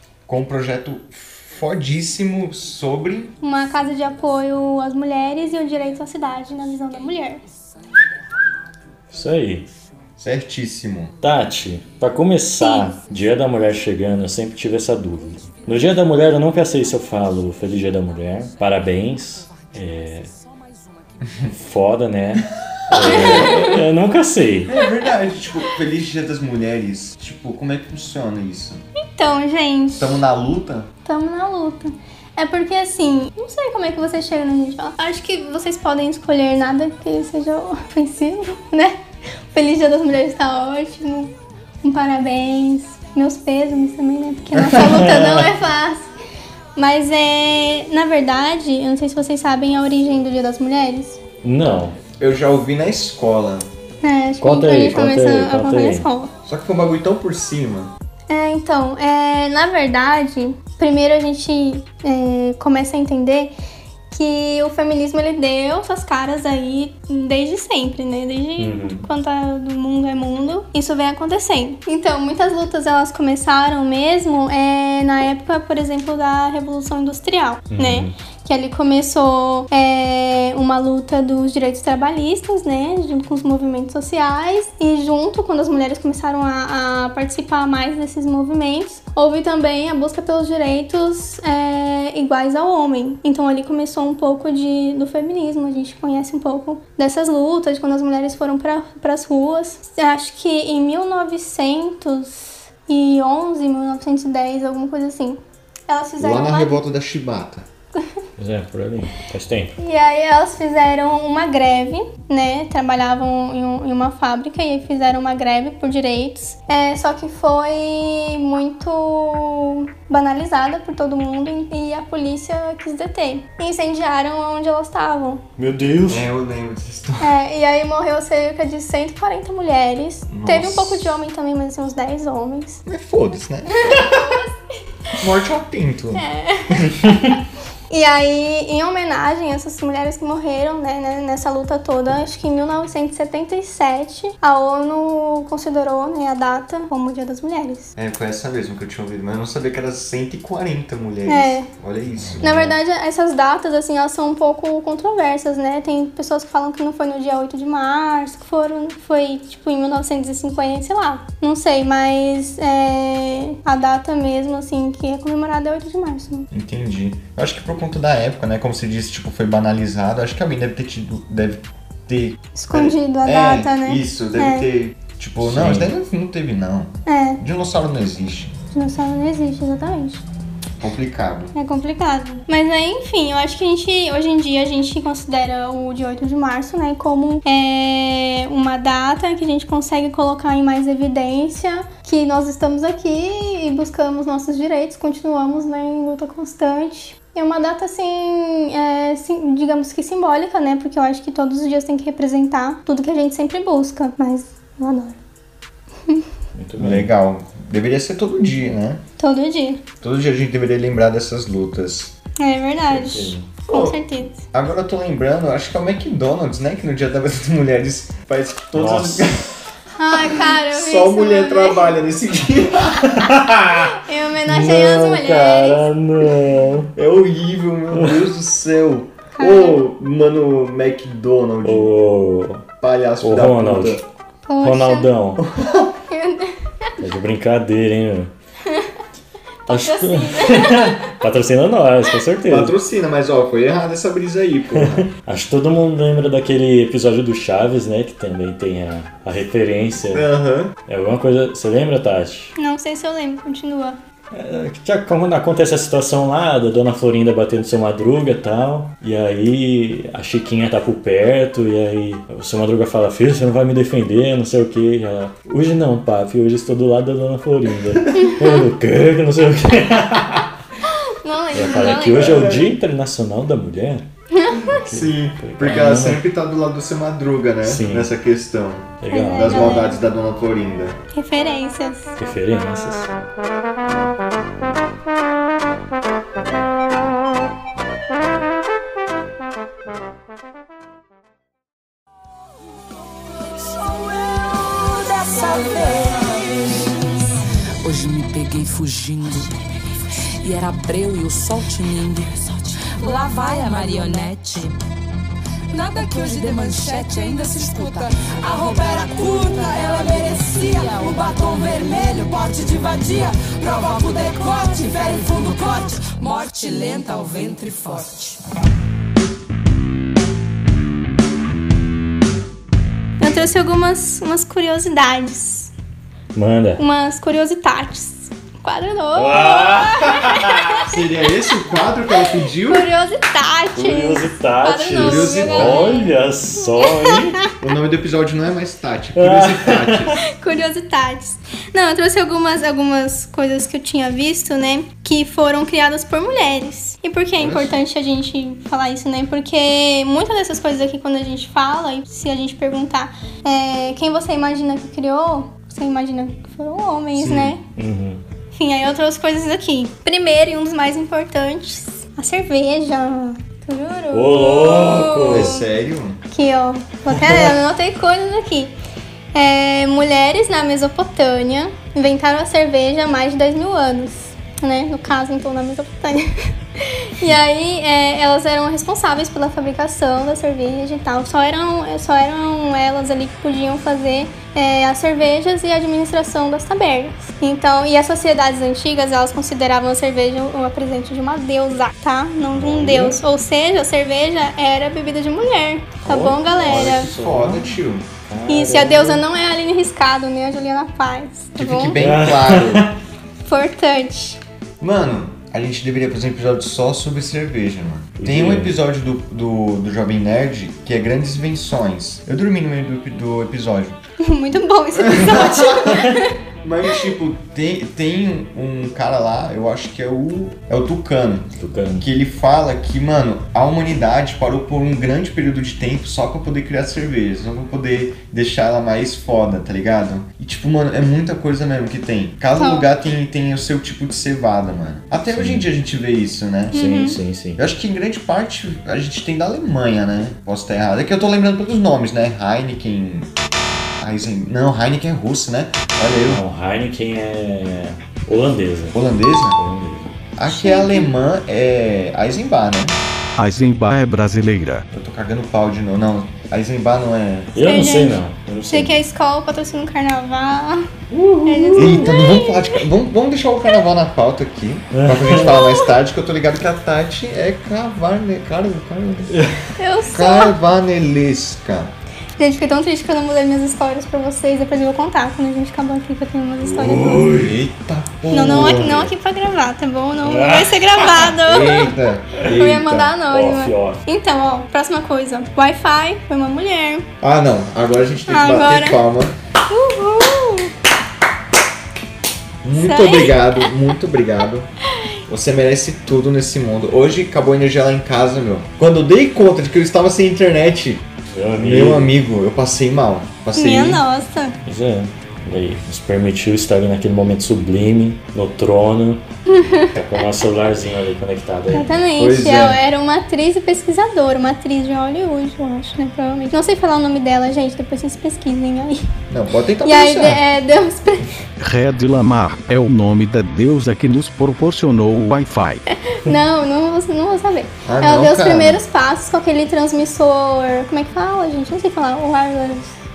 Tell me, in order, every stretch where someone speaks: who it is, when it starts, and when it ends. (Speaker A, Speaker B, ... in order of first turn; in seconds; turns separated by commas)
Speaker A: 0.3-3.3, Speaker B: 3.4-7.4, Speaker C: 9.1-9.7, Speaker A: 10.2-11.2, Speaker C: 11.2-20.3, Speaker B: 12.6-12.9, Speaker C: 21.5-24.8, Speaker A: 22.9-23.9, Speaker B: 23.1-23.7, Speaker A: 24.7-28.9, Speaker B: 29.0-30.2, Speaker A: 30.0-30.9, Speaker B: 31.1-39.0, Speaker B: 39.5-46.1, Speaker A: 44.6-45.0, Speaker C: 44.8-45.5, Speaker B: 46.8-51.2, Speaker C: 51.4-52.0, Speaker A: 52.2-53.7, Speaker B: 54.0-56.3, Speaker C: 54.4-56.1, Speaker A: 56.5-57.9, Speaker B: 58.3-63.5, Speaker B: 64.1-106.8, Speaker C: 68.6-69.0, Speaker C: 77.7-78.1, Speaker A: 106.2-107.7, Speaker C: 108.4-109.7, Speaker B: 109.8-125.4, Speaker C: 125.6-126.3, Speaker A: 126.1-127.3, Speaker B: 127.2-132.8, Speaker A: 130.3-131.1, Speaker A: 132.9-134.4, Speaker B: 133.7-134.6, Speaker A: 135.2-136.9, Speaker B: 136.2-137.3, Speaker B: 137.9-147.9, Speaker A: 148.0-152.8, Speaker B: 151.3-151.7, Speaker B: 152.4-166.5, Speaker A: 166.5-178.6, Speaker B: 172.6-174.7, Speaker C: 175.4-175.9, Speaker B: 177.1-177.4, Speaker B: 178.7-180.2, Speaker A: 180.8-181.5, Speaker B: 181.5-205.2, Speaker C: 206.6-207.1, Speaker A: 206.8-209.0, Speaker B: 209.2-209.8, Speaker A: 210.0-212.1, Speaker B: 212.4-214.4, Speaker C: 212.9-213.5, Speaker A: 213.7-219.5, Speaker C: 218.8-219.4, Speaker B: 220.0-221.9, Speaker A: 220.3-223.3, Speaker C: 223.1-226.9, Speaker B: 223.9-225.9, Speaker A: 226.9-231.9, Speaker C: 227.9-228.2, Speaker B: 229.3-229.8, Speaker C: 231.6-232.7, Speaker A: 232.8-234.0, Speaker C: 233.2-234.0, Speaker B: 234.5-235.1, Speaker C: 234.6-235.4, Speaker A: 235.4-236.0, Speaker B: 236.1-236.9, Speaker C: 237.0-238.3, Speaker B: 239.7-241.2, Speaker C: 239.7-242.8, Speaker A: 242.5-245.1, Speaker C: 244.8-250.3, Speaker A: 250.0-250.7, Speaker C: 250.9-252.5, Speaker B: 252.6-254.0, Speaker C: 254.3-270.5, Speaker B: 268.1-268.6, Speaker B: 270.9-272.5, Speaker C: 271.5-274.1, Speaker A: 271.8-272.7, Speaker B: 274.3-274.8, Speaker C: 274.7-276.2, Speaker A: 274.8-281.0, Speaker C: 277.6-278.1, Speaker C: 279.0-279.9, Speaker B: 279.1-280.0, Speaker B: 281.1-282.1, Speaker C: 282.2-283.1, Speaker D: 293.8-296.9, Speaker D: 297.8-299.5, Speaker D: 300.4-304.8, Speaker D: 305.7-318.4, Speaker B: 323.2-325.7, Speaker C: 326.3-326.8, Speaker B: 326.8-330.9, Speaker C: 329.1-330.9, Speaker A: 330.9-332.9, Speaker B: 332.7-336.1, Speaker C: 333.7-337.4, Speaker A: 335.0-336.0, Speaker B: 336.7-337.5, Speaker A: 337.6-340.2, Speaker C: 339.2-340.1, Speaker B: 340.3-357.6, Speaker A: 347.4-347.8, Speaker A: 357.2-357.6, Speaker C: 357.7-358.2, Speaker B: 358.5-365.6, Speaker C: 364.1-365.6, Speaker A: 365.3-366.2, Speaker B: 366.3-368.8, Speaker C: 367.1-367.6, Speaker B: 369.3-397.1, Speaker C: 392.5-393.2, Speaker A: 396.1-398.1, Speaker C: 396.4-397.8, Speaker C: 398.3-399.2, Speaker B: 398.5-402.0, Speaker A: 401.6-402.9, Speaker C: 402.0-402.9, Speaker B: 403.4-404.4, Speaker A: 404.8-414.0, Speaker C: 408.2-408.8, Speaker B: 414.2-416.3, Speaker A: 414.9-436.9, Speaker C: 421.6-422.1, Speaker B: 432.6-432.9, Speaker C: 435.4-435.7, Speaker B: 436.7-437.2, Speaker C: 436.7-437.6, Speaker A: 437.6-443.3, Speaker A: 444.0-446.4, Speaker C: 446.1-449.0, Speaker A: 448.9-449.6, Speaker C: 449.6-450.1, Speaker A: 450.4-453.0, Speaker B: 450.5-451.1, Speaker E: 453.4-454.9, Speaker A: 454.9-457.6, Speaker C: 457.6-459.0, Speaker B: 457.6-460.9, Speaker C: 461.1-462.1, Speaker B: 461.4-462.8, Speaker A: 461.8-469.4, Speaker C: 464.9-465.6, Speaker B: 465.4-465.9, Speaker C: 469.3-469.6, Speaker B: 469.8-470.6, Speaker A: 470.1-471.9, Speaker B: 472.4-477.3, Speaker C: 476.6-477.6, Speaker A: 477.3-479.1, Speaker B: 478.3-481.9, Speaker C: 478.4-478.9, Speaker C: 480.2-481.3, Speaker A: 481.4-483.1, Speaker B: 482.5-487.1, Speaker C: 483.3-484.0, Speaker A: 487.2-489.4, Speaker B: 488.3-489.0, Speaker B: 489.7-490.7, Speaker A: 492.6-494.7, Speaker B: 492.8-493.7, Speaker A: 495.3-504.0, Speaker C: 501.3-502.2, Speaker B: 503.6-504.6, Speaker C: 504.7-509.2, Speaker B: 509.5-510.0, Speaker C: 509.9-512.0, Speaker B: 511.7-519.1, Speaker A: 512.2-512.8, Speaker A: 519.3-520.4, Speaker B: 519.8-521.3, Speaker E: 521.6-525.8, Speaker B: 525.9-532.9, Speaker A: 527.9-528.8